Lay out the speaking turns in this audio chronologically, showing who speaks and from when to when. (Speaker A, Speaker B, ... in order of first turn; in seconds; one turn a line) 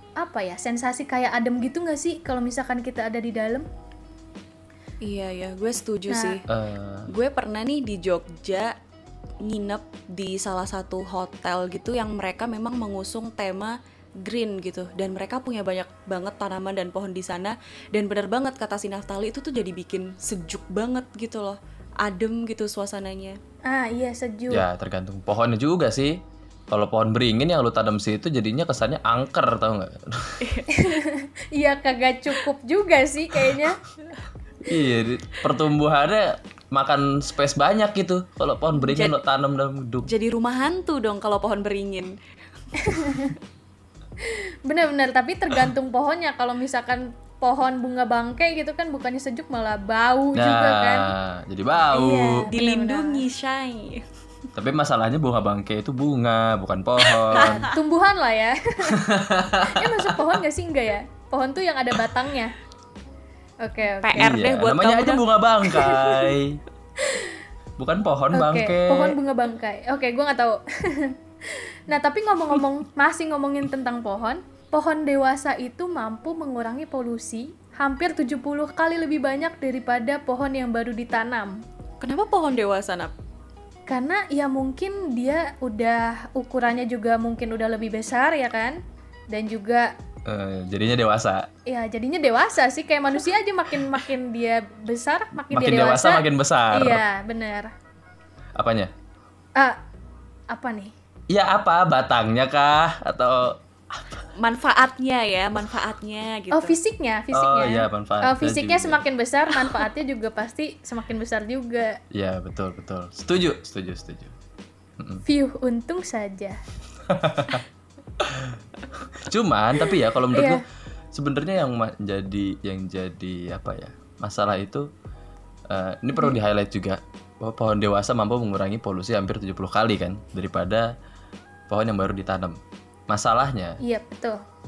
Speaker A: 0.2-3.6
Speaker B: 5.0-6.4
Speaker A: 6.1-6.4
Speaker C: 6.5-7.1
Speaker B: 7.1-8.8
Speaker B: 9.4-23.4
Speaker A: 23.6-24.6
Speaker C: 24.5-30.4
Speaker B: 30.4-30.9
Speaker A: 30.7-33.8
Speaker C: 34.6-40.1
Speaker B: 38.8-39.2
Speaker B: 40.1-42.1
Speaker B: 42.7-43.4
Speaker A: 42.8-43.4
Speaker A: 44.2-51.1
Speaker C: 50.3-52.5
Speaker A: 51.9-53.2
Speaker B: 52.5-54.0
Speaker C: 54.5-57.6
Speaker B: 57.0-57.7
Speaker A: 57.3-59.0
Speaker C: 58.9-60.4
Speaker A: 59.6-62.5
Speaker A: 63.6-64.3
Speaker B: 64.0-65.2
Speaker C: 64.2-66.6
Speaker A: 67.0-67.4
Speaker C: 67.8-69.2
Speaker A: 68.3-81.6
Speaker B: 82.0-83.1
Speaker A: 83.9-88.8
Speaker A: 89.3-89.9
Speaker C: 90.3-91.5
Speaker A: 91.7-97.7
Speaker C: 95.5-97.0
Speaker C: 98.5-98.9
Speaker A: 100.5-100.9
Speaker C: 101.3-104.2
Speaker B: 104.4-106.8
Speaker A: 106.5-112.0
Speaker C: 107.3-109.0
Speaker C: 112.1-114.3
Speaker C: 115.0-115.2
Speaker A: 115.2-116.6
Speaker C: 117.0-117.6
Speaker C: 118.2-124.9
Speaker A: 120.3-120.6
Speaker C: 125.7-130.9
Speaker C: 131.7-132.6
Speaker C: 133.1-133.8
Speaker A: 133.8-134.4